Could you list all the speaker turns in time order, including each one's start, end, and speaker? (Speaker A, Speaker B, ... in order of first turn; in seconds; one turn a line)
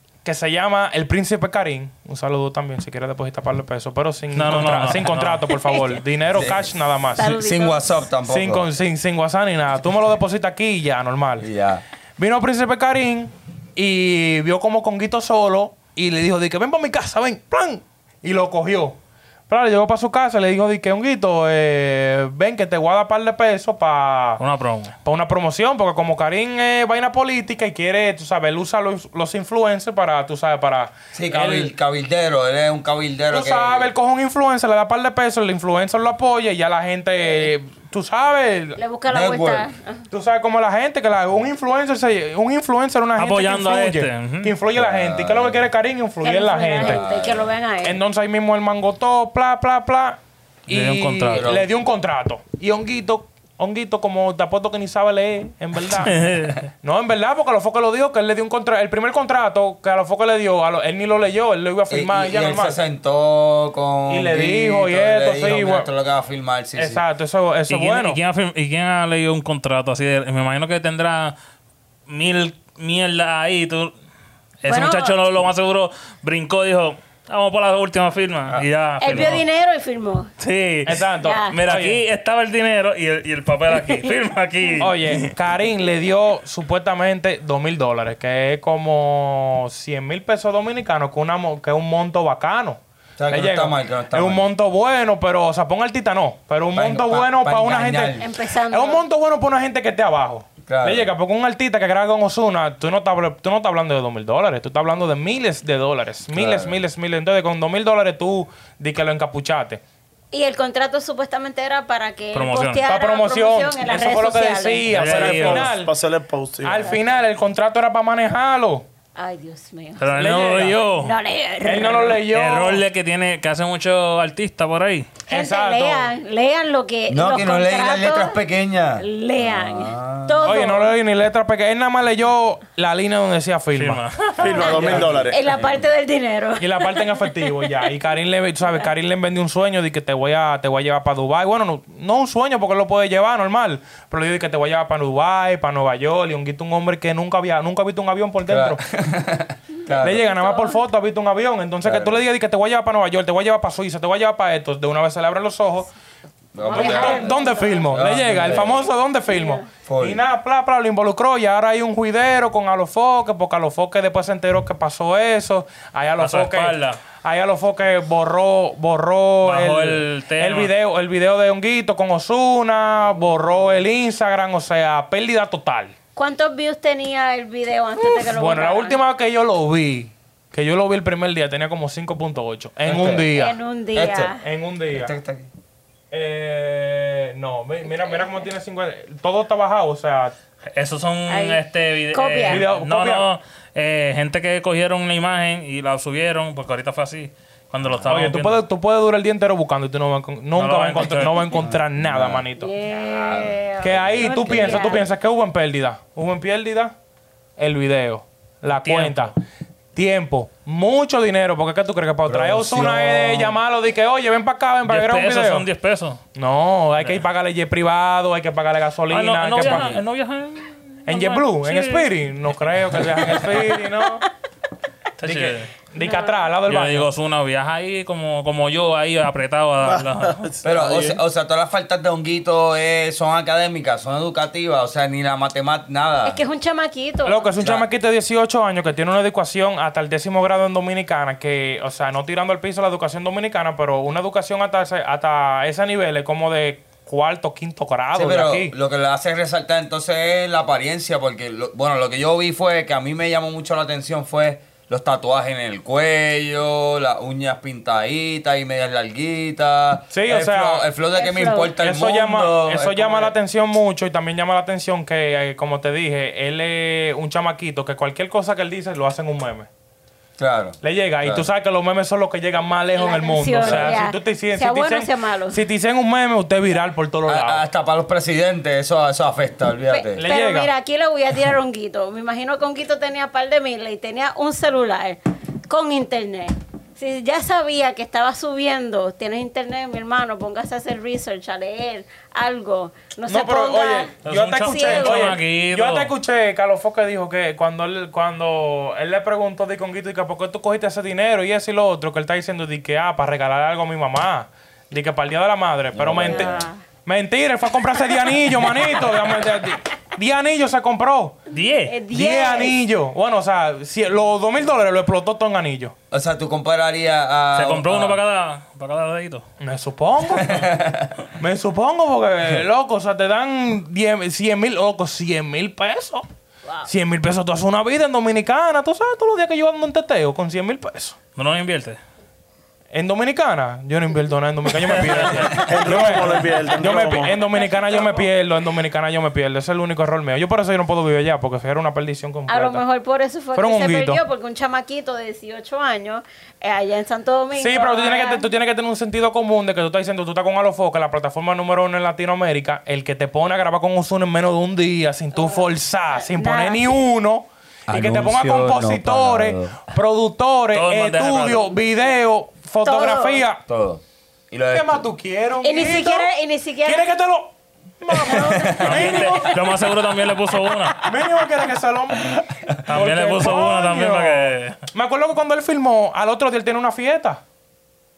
Speaker A: 0.2-7.3
Speaker B: 4.3-5.5
Speaker C: 5.6-5.9
Speaker D: 6.3-6.6
Speaker C: 7.2-7.9
Speaker D: 7.2-8.7
Speaker A: 8.2-11.5
Speaker D: 11.4-11.8
Speaker A: 12.2-19.0
Speaker A: 19.5-24.4
Speaker B: 24.4-24.9
Speaker A: 25.0-31.7
Speaker D: 31.1-33.9
Speaker A: 33.3-38.8
Speaker C: 38.8-40.0
Speaker D: 39.1-39.7
Speaker A: 40.1-47.0
Speaker B: 43.2-44.5
Speaker D: 44.7-45.6
Speaker C: 46.2-48.0
Speaker D: 46.8-47.5
Speaker A: 47.8-56.1
Speaker B: 50.7-51.5
Speaker D: 51.3-51.7
Speaker B: 55.9-56.6
Speaker A: 56.8-62.8
Speaker D: 61.9-67.0
Speaker A: 64.1-65.9
Speaker A: 66.8-68.2
Speaker B: 67.7-71.3
Speaker B: 72.1-73.9
Speaker B: 74.6-79.4
Speaker C: 74.7-75.2
Speaker D: 78.5-79.2
Speaker C: 79.0-80.3
Speaker B: 80.4-85.3
Speaker A: 80.8-82.0
Speaker C: 81.2-81.5
Speaker A: 84.8-109.8
Speaker D: 93.2-94.5
Speaker D: 96.7-98.3
Speaker C: 98.2-99.0
Speaker D: 100.6-101.1
Speaker D: 106.3-106.8
Speaker C: 110.3-115.4
Speaker B: 112.3-112.8
Speaker A: 112.9-115.9
Speaker B: 114.9-115.7
Speaker E: 115.1-116.9
Speaker A: 116.6-118.8
Speaker C: 119.2-120.1
Speaker B: 120.0-121.1
Speaker A: 120.2-120.8
Speaker C: 120.9-122.2
Speaker A: 121.6-122.8
Speaker B: 122.3-125.1
Speaker C: 125.3-128.4
Speaker A: 125.3-126.1
Speaker D: 127.1-130.5
Speaker C: 129.0-130.9
Speaker A: 130.4-134.0
Speaker B: 133.7-135.0
Speaker E: 134.4-135.4
Speaker C: 134.4-137.6
Speaker A: 134.6-135.2
Speaker D: 135.5-135.9
Speaker A: 136.6-148.8
Speaker D: 148.5-150.2
Speaker A: 150.0-155.9
Speaker C: 150.3-150.8
Speaker D: 151.8-152.2
Speaker D: 156.5-158.9
Speaker C: 156.6-157.9
Speaker A: 156.7-175.9
Speaker C: 159.3-159.7
Speaker D: 159.8-160.2
Speaker B: 166.2-167.0
Speaker B: 169.4-170.7
Speaker C: 176.2-179.0
Speaker A: 178.0-183.6
Speaker D: 182.8-183.3
Speaker C: 183.3-184.4
Speaker D: 183.9-184.3
Speaker A: 184.4-185.1
Speaker D: 184.9-185.5
Speaker A: 186.1-190.3
Speaker B: 190.7-198.6
Speaker C: 191.3-192.6
Speaker A: 192.4-193.3
Speaker A: 198.0-202.7
Speaker B: 200.5-201.5
Speaker D: 201.5-205.0
Speaker C: 202.6-205.1
Speaker A: 203.8-206.9
Speaker A: 207.6-209.3
Speaker B: 208.8-209.3
Speaker A: 209.9-215.7
Speaker D: 212.3-213.6
Speaker B: 214.9-216.2
Speaker A: 216.3-220.0
Speaker B: 219.1-222.1
Speaker D: 219.6-220.0
Speaker A: 221.1-224.2
Speaker B: 222.7-223.8
Speaker B: 225.2-225.7
Speaker A: 225.2-227.1
Speaker C: 225.9-226.5
Speaker B: 226.7-230.5
Speaker E: 229.8-231.2
Speaker D: 230.6-236.4
Speaker C: 236.2-237.5
Speaker A: 237.2-248.7
Speaker D: 248.1-263.3
Speaker A: 260.1-260.9
Speaker C: 261.1-261.7
Speaker A: 261.8-269.7
Speaker D: 270.4-271.4
Speaker A: 270.8-277.6
Speaker C: 272.9-275.6
Speaker D: 273.6-274.0
Speaker D: 277.3-280.2
Speaker C: 279.9-295.4
Speaker A: 280.1-280.7
Speaker A: 293.3-311.4
Speaker B: 294.2-296.1
Speaker D: 305.9-306.7
Speaker C: 306.2-306.8
Speaker B: 311.5-311.9
Speaker C: 311.8-312.8
Speaker A: 312.1-315.9
Speaker D: 316.1-318.2
Speaker B: 317.5-319.4
Speaker A: 319.6-320.5
Speaker D: 320.3-321.1
Speaker A: 321.4-326.2
Speaker A: 326.9-331.2
Speaker B: 331.4-332.0
Speaker A: 332.9-342.8
Speaker B: 334.9-335.8
Speaker E: 335.6-337.4
Speaker C: 337.5-338.2
Speaker C: 342.5-348.4
Speaker A: 343.5-344.2
Speaker A: 347.5-363.6
Speaker C: 355.3-357.0
Speaker D: 357.9-359.8
Speaker B: 360.7-361.6
Speaker C: 362.8-363.4
Speaker D: 363.6-365.0
Speaker A: 364.7-366.3
Speaker C: 365.6-367.1
Speaker A: 366.8-369.6
Speaker C: 368.2-369.5
Speaker D: 368.3-369.1
Speaker B: 368.8-371.0
Speaker A: 371.0-377.4
Speaker B: 372.8-374.8